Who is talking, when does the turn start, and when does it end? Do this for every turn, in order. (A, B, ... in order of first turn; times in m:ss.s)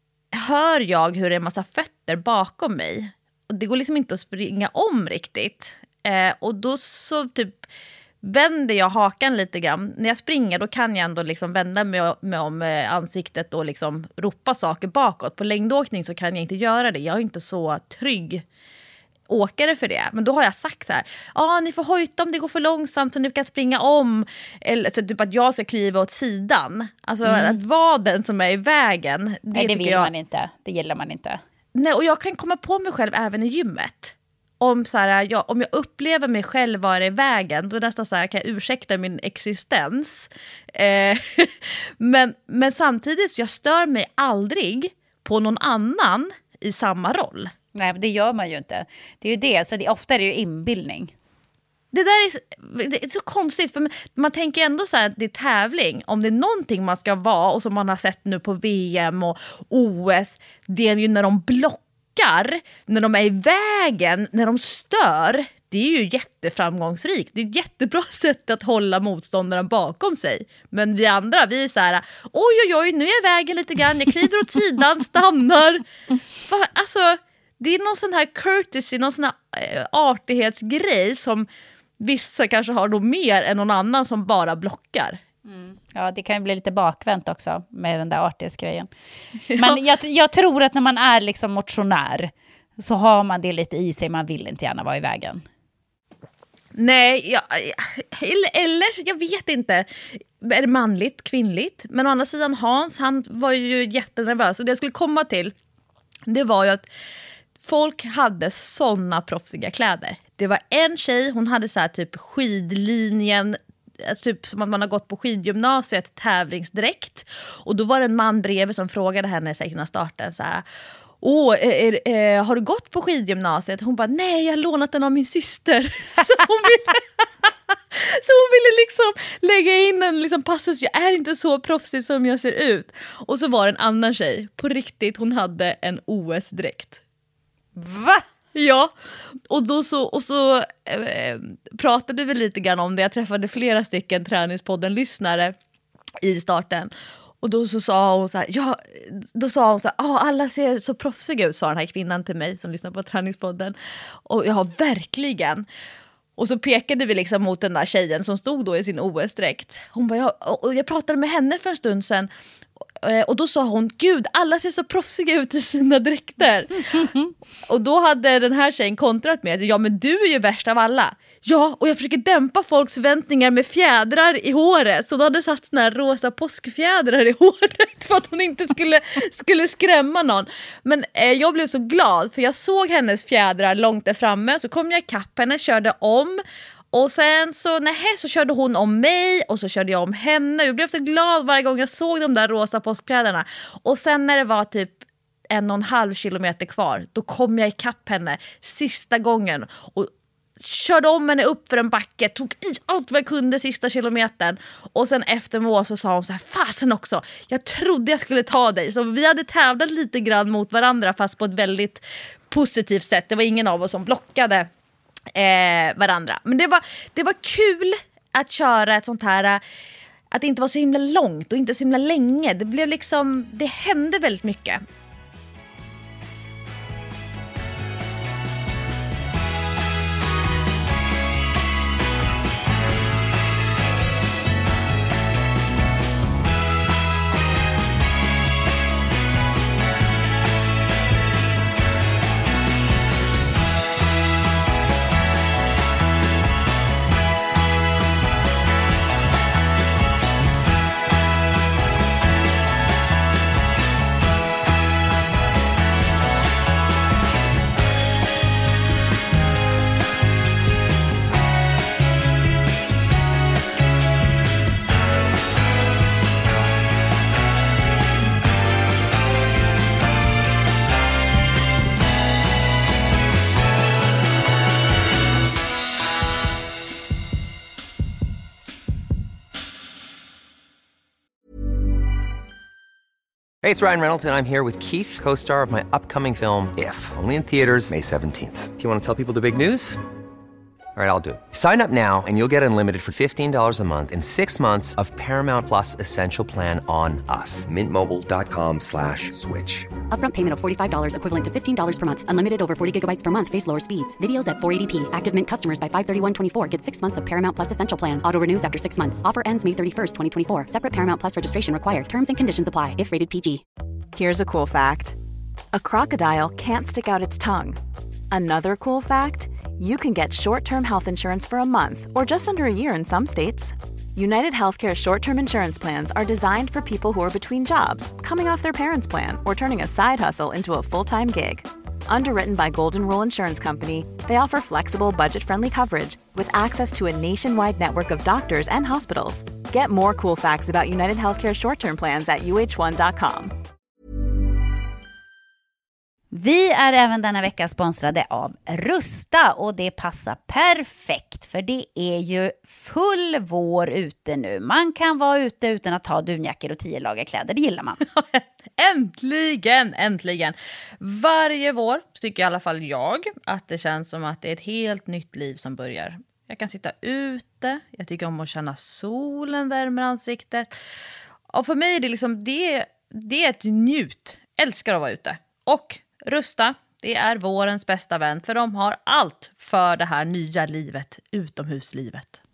0:00.3-0:07.7 A
0:08.2-0:18.4 A
0:19.3-0:30.1 A
0:27.2-0:27.6 B
0:29.5-0:31.4 B
0:31.8-0:47.5 A
0:47.8-0:51.1 B
0:51.9-1:15.8 A
1:16.5-1:21.5 A
1:22.0-1:25.2 A
1:25.5-1:28.9 B
1:29.5-1:29.8 A
1:29.5-1:35.4 B
1:36.7-1:45.5 A
1:46.3-1:46.9 A
1:47.6-2:00.6 A
2:01.2-2:17.0 A
2:17.8-2:18.2 B
2:18.5-2:18.9 A
2:19.5-2:25.6 A
2:26.2-2:35.7 A
2:36.4-2:42.3 A
2:43.0-2:47.1 A
2:47.0-2:47.3 B
2:47.6-3:06.4 A
3:06.9-3:34.7 A
3:35.3-3:39.6 A
3:40.3-3:44.8 A
4:43.6-4:50.0 C
4:51.0-4:59.9 C
5:00.1-5:13.6 D
5:14.1-5:15.2 E
5:15.7-5:17.8 E
5:18.3-5:43.6 E
5:46.3-5:58.0 B
5:58.2-6:10.7 A
6:11.5-6:22.4 A